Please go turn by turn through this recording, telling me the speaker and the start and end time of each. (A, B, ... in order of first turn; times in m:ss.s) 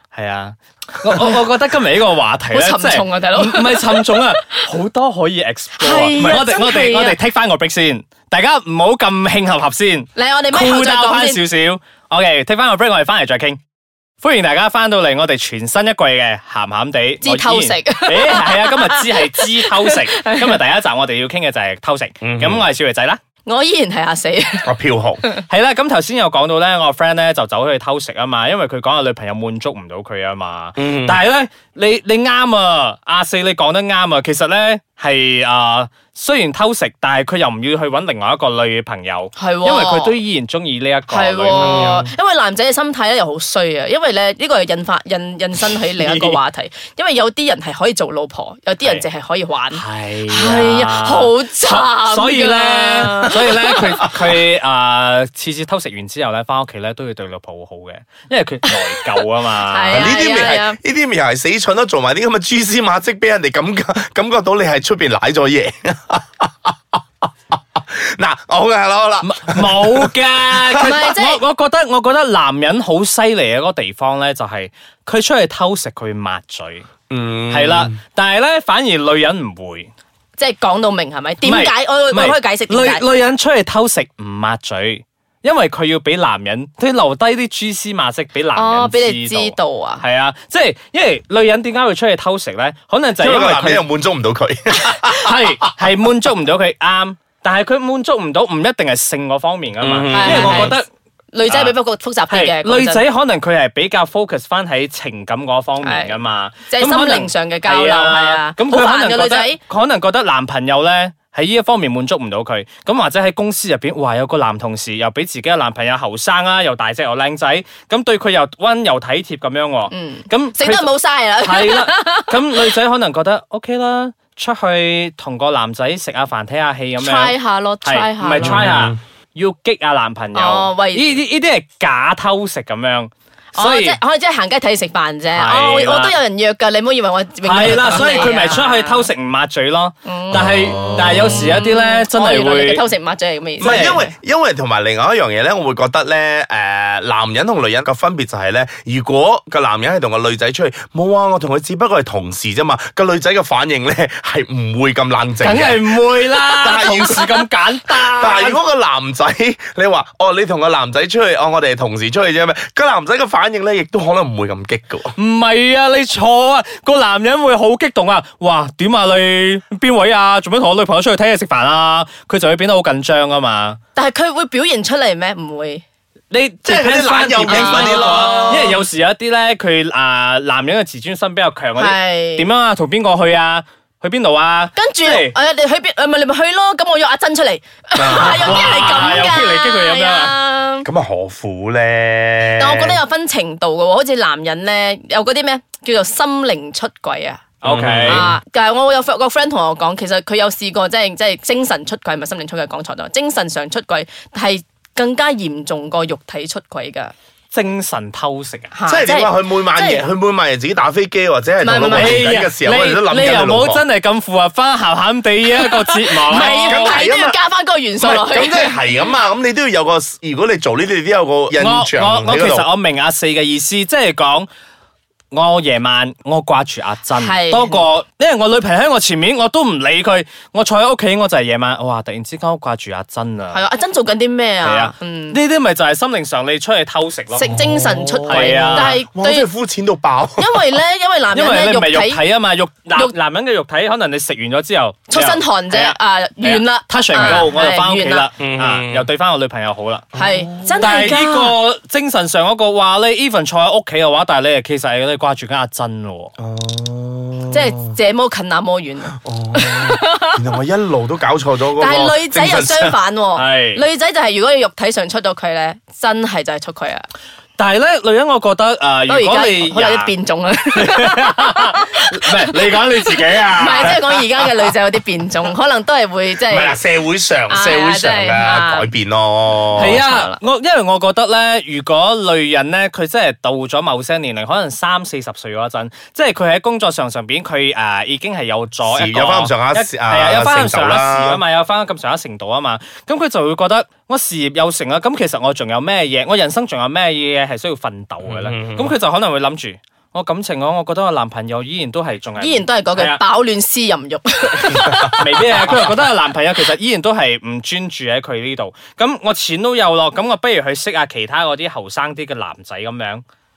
0:00.1-0:13.6 A
0:02.5-0:04.1 B
0:05.8-0:07.2 B
0:06.2-0:06.5 C
0:10.2-0:11.4 B
0:14.2-0:23.2 A
0:17.2-0:20.5 B
0:22.2-0:22.6 C
0:23.4-0:24.7 B
0:24.6-0:25.2 C
0:25.5-0:42.0 A
0:30.8-0:31.2 C
0:39.4-0:40.2 B
0:41.1-0:53.5 B
0:41.5-0:42.1 C
0:45.9-0:46.4 A
0:49.7-1:00.1 A
0:59.7-1:00.8 B
0:59.9-1:06.8 C
1:07.6-1:11.0 C
1:09.2-1:16.9 A
1:10.8-1:11.4 B
1:17.1-1:18.0 C
1:17.5-1:19.9 A
1:20.4-1:23.1 B
1:21.4-1:33.9 A
1:28.5-1:30.0 B
1:33.2-1:35.5 C
1:34.8-1:40.9 A
1:39.8-1:40.8 C
1:40.1-1:40.8 B
1:41.3-1:43.1 B
1:41.5-1:41.8 A
1:42.3-2:14.0 A
1:45.8-1:46.2 B
1:46.7-1:49.6 B
1:59.9-2:02.4 B
2:07.0-2:08.6 B
2:08.4-2:09.0 C
2:10.3-2:11.2 B
2:13.6-2:19.1 B
2:15.3-2:16.2 A
2:17.4-2:22.8 A
2:20.0-2:24.1 B
2:20.3-2:21.6 C
2:23.6-2:24.1 A
2:23.6-2:35.9 C
2:35.4-2:38.6 A
2:36.6-2:37.4 C
2:38.2-2:45.1 C
2:45.2-2:53.8 A
2:54.0-2:55.8 B
2:56.3-3:05.3 A
2:56.7-2:58.8 C
2:57.5-2:58.8 B
3:01.8-3:02.5 B
3:04.8-3:10.9 B
3:08.0-3:09.3 C
3:08.1-3:10.4 A
3:10.8-3:13.0 C
3:12.6-3:17.5 B
3:17.6-3:18.3 A
3:17.6-3:18.4 C
3:18.1-3:27.1 B
3:27.5-3:28.7 A
3:28.7-3:30.0 B
3:28.9-3:33.8 C
3:31.6-3:32.2 B
3:31.9-3:37.0 A
3:35.6-3:38.8 B
3:36.4-3:37.4 C
3:38.0-3:42.7 C
3:41.6-3:44.5 A
3:45.3-3:53.6 A
3:47.1-3:47.9 B
3:53.5-3:55.4 B
3:54.6-3:57.7 A
3:57.3-3:59.5 B
3:57.5-4:00.6 C
3:58.3-3:59.0 A
4:00.4-4:02.2 B
4:01.3-4:10.1 A
4:05.1-4:08.3 B
4:08.4-4:09.1 C
4:10.1-4:11.0 C
4:10.2-4:11.6 B
4:10.8-4:16.3 A
4:16.4-4:18.0 C
4:17.5-4:20.4 B
4:19.1-4:23.0 C
4:21.8-4:27.0 B
4:23.4-4:23.8 A
4:27.6-4:30.1 A
4:29.1-4:36.8 B
4:30.8-4:34.2 A
4:36.5-4:40.0 C
4:37.5-4:38.9 B
4:39.8-5:03.2 A
4:39.8-4:40.4 B
4:48.9-4:51.4 C
4:58.3-4:58.9 C
5:02.4-5:05.8 B
5:04.6-5:13.2 A
5:04.8-5:05.1 C